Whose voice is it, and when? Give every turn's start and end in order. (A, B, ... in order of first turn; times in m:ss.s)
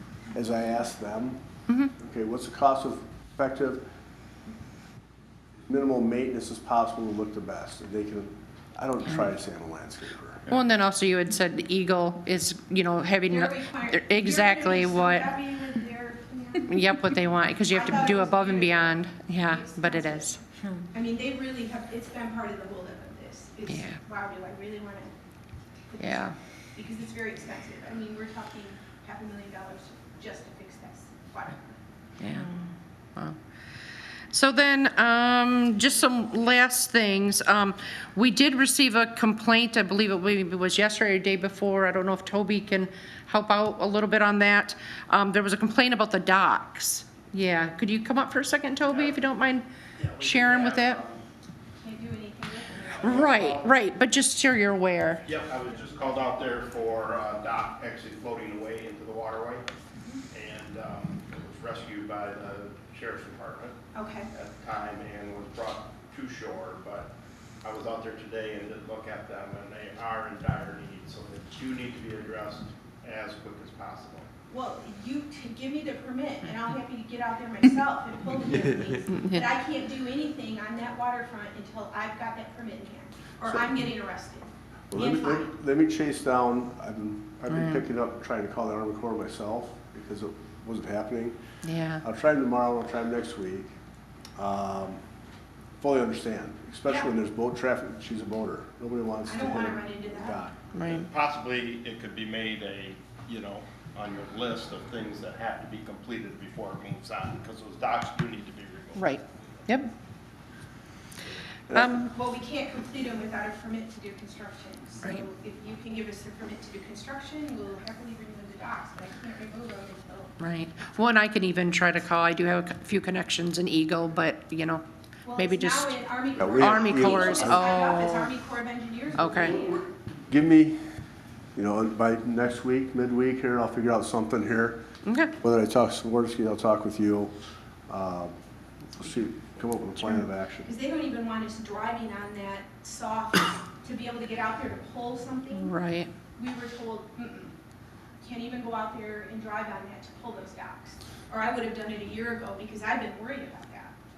0:00.3-0:01.4 A
0:01.7-0:01.9 B
0:02.0-0:03.8 A
0:05.7-0:10.4 A
0:10.5-0:15.3 B
0:13.3-0:17.0 C
0:16.6-0:20.4 B
0:17.7-0:25.1 C
0:23.7-0:24.0 B
0:25.9-0:31.8 C
0:26.0-0:26.3 B
0:32.2-0:33.4 B
0:34.3-0:49.7 B
0:48.9-0:49.2 D
0:50.0-0:51.2 D
0:50.2-0:51.0 B
0:51.8-0:53.4 C
0:52.8-0:53.8 D
0:53.0-0:55.2 B
0:55.2-0:59.7 D
1:00.0-1:00.2 C
1:00.3-1:03.8 D
1:03.9-1:04.3 C
1:04.3-1:14.3 D
1:14.5-1:25.5 C
1:19.1-1:19.4 B
1:24.9-1:31.4 A
1:27.5-1:27.8 B
1:31.6-1:32.0 B
1:32.0-1:33.7 A
1:34.4-1:35.0 A
1:35.8-1:40.7 A
1:39.3-1:40.4 C
1:40.7-1:41.1 B
1:40.8-1:49.1 D
1:49.0-1:49.9 B
1:51.7-1:52.0 A
1:51.7-1:52.1 B
1:51.8-2:00.4 C
2:00.4-2:04.8 B
2:05.3-2:09.9 C
2:05.4-2:06.0 B
2:06.4-2:07.7 A
2:06.6-2:08.3 B
2:09.2-2:09.6 B
2:09.4-2:10.8 A
2:11.6-2:14.8 A
2:15.0-2:15.3 B
2:15.4-2:17.3 A
2:17.9-2:18.3 A
2:19.0-2:20.7 A
2:20.6-2:25.8 C
2:25.5-2:26.1 B
2:26.4-2:27.5 C
2:28.2-2:33.9 C